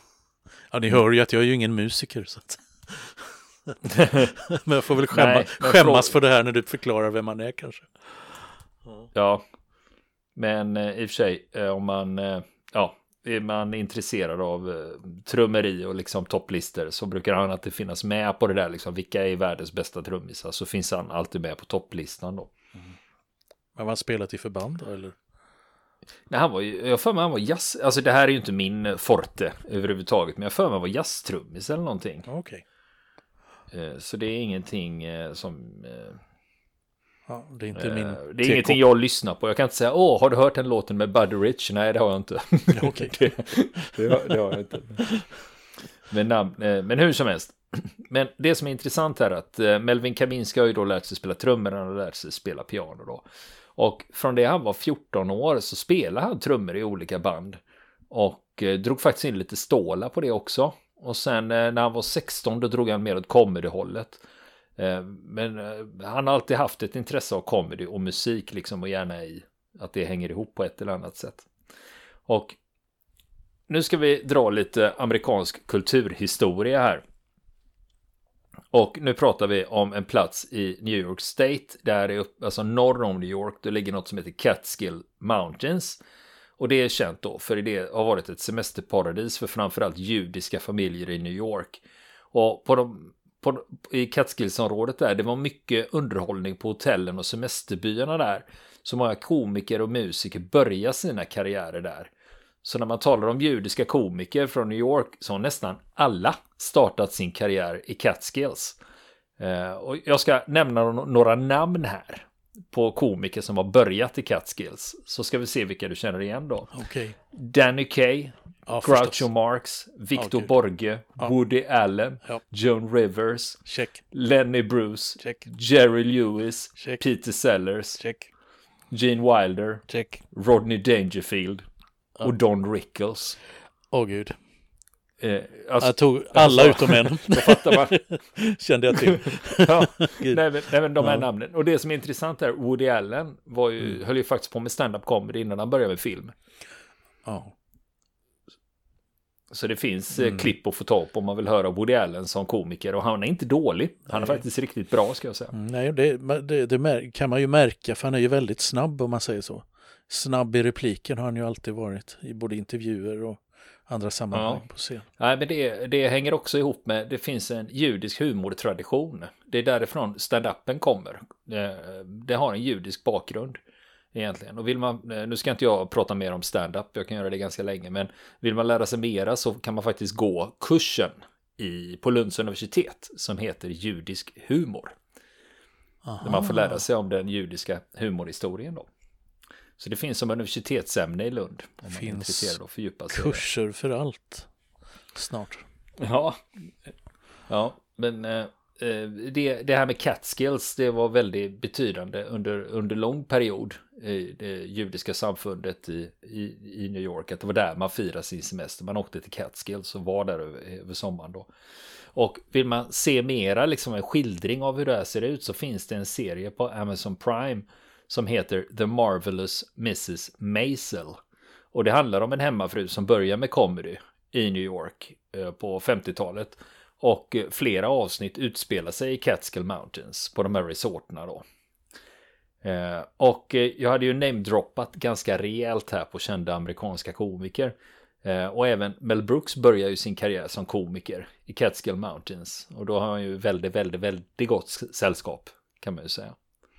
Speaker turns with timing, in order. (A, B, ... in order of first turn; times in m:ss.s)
0:00.7-0:09.1 A
0:03.9-0:04.3 B
0:05.1-0:06.1 B
0:09.1-0:09.4 B
0:10.4-0:22.5 B
0:23.8-0:25.2 A
0:26.3-0:32.3 B
0:32.2-0:32.6 A
0:33.7-0:36.2 B
0:37.3-0:38.8 A
0:37.7-0:45.1 B
0:42.7-0:43.2 A
0:43.8-0:44.3 A
0:46.1-0:53.2 B
0:53.8-1:04.2 B
1:04.8-1:11.5 B
1:12.3-1:12.6 B
1:13.7-1:17.0 B
1:18.7-1:26.0 B
1:26.6-1:42.1 B
1:42.6-1:48.8 B
1:49.4-1:56.7 B
1:56.7-1:57.2 A
1:57.3-2:08.0 B
1:58.6-1:59.3 A
2:00.1-2:00.5 A
2:03.6-2:04.0 A
2:05.2-2:05.5 A
2:06.8-2:07.0 A
2:08.0-2:08.3 A
2:08.9-2:11.6 B
2:09.9-2:10.2 A
2:12.2-2:13.4 B
2:13.9-2:14.4 A
2:15.2-2:18.0 B
2:15.8-2:20.4 A
2:19.2-2:26.3 B
2:21.0-2:21.2 A
2:27.2-2:27.5 A
2:29.5-2:35.5 B
2:30.2-2:30.5 A
2:34.2-2:34.4 A
2:35.5-2:45.0 A
2:44.3-2:44.6 B
2:45.2-2:53.6 B
2:54.1-3:05.0 B
3:06.0-3:06.8 A
3:06.2-3:08.9 B
3:09.8-3:13.4 B
3:11.8-3:12.6 A
3:13.1-3:14.5 A
3:15.1-3:15.6 A
3:16.0-3:16.4 B
3:17.5-3:31.5 B
3:32.1-3:41.2 B
3:41.7-3:51.4 B
3:52.6-4:06.4 B